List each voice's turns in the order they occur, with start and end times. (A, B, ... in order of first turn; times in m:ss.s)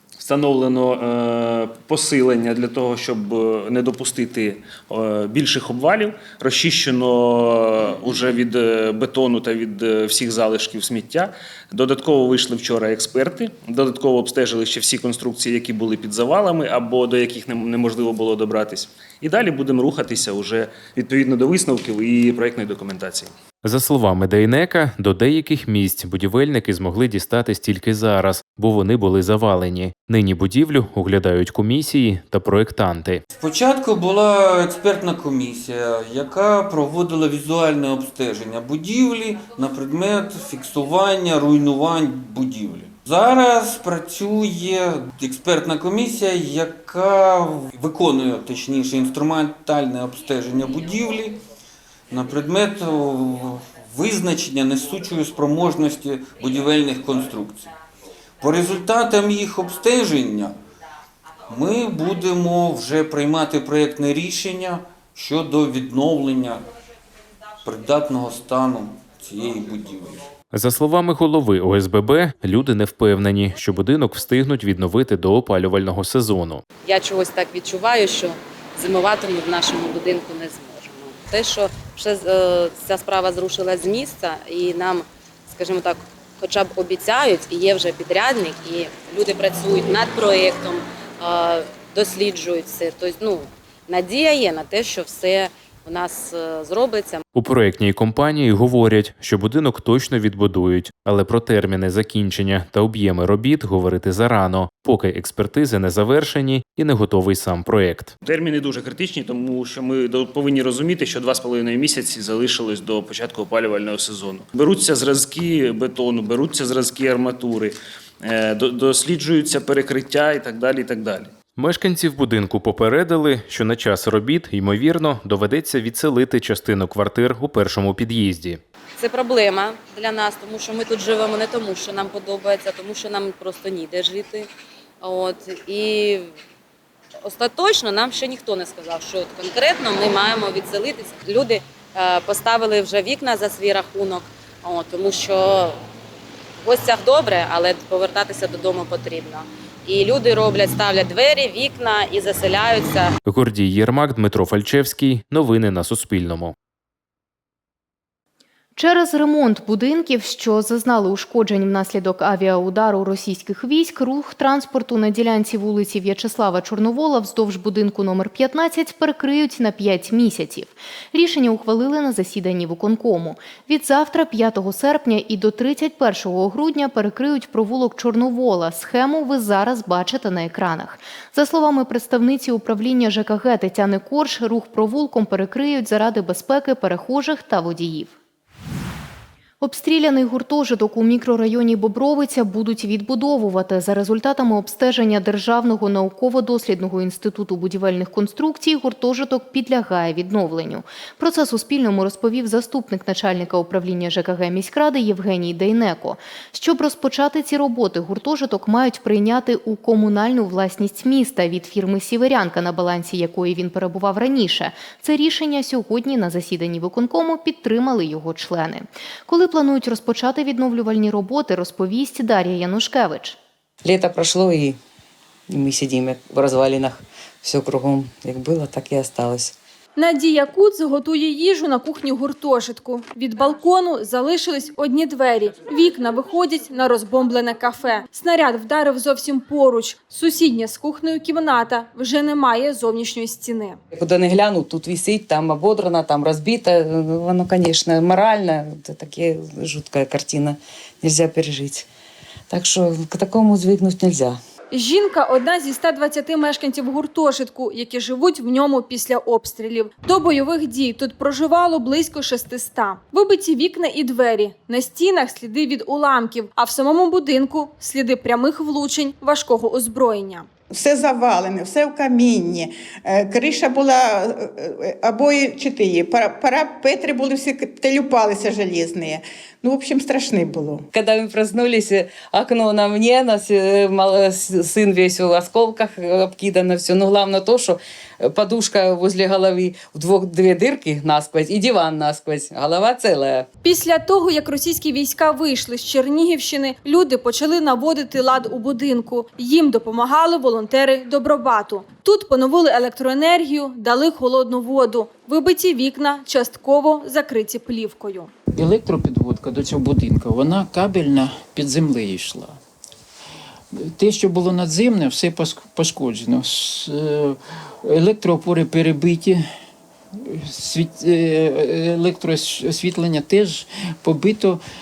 0:00.2-0:23.3 A
0:23.6-0:33.2 B
0:33.4-0:51.4 C
0:52.1-0:57.7 C
0:58.4-1:00.5 C
1:01.5-1:06.6 C
1:07.6-1:10.2 C
1:10.5-1:16.6 B
1:16.9-1:37.2 D
1:37.3-1:48.1 B
1:48.2-2:01.3 A
2:01.6-2:08.6 B
2:09.0-2:14.5 D
2:15.0-2:16.2 D
2:17.3-2:25.7 D
2:26.7-2:29.3 D
2:29.9-2:32.9 D
2:33.3-2:36.6 B
2:38.8-3:08.2 E
3:09.6-3:43.4 E
3:43.8-3:44.8 F
3:45.5-3:49.5 F
3:50.0-4:03.8 G
4:03.9-4:11.9 F
4:12.5-4:14.4 F
4:14.7-4:30.5 G
4:30.7-4:40.8 H
4:40.9-4:53.5 F
4:53.6-5:08.3 G
5:08.6-5:12.4 I
5:14.0-5:16.9 I
5:17.9-5:19.4 I
5:20.6-5:24.5 I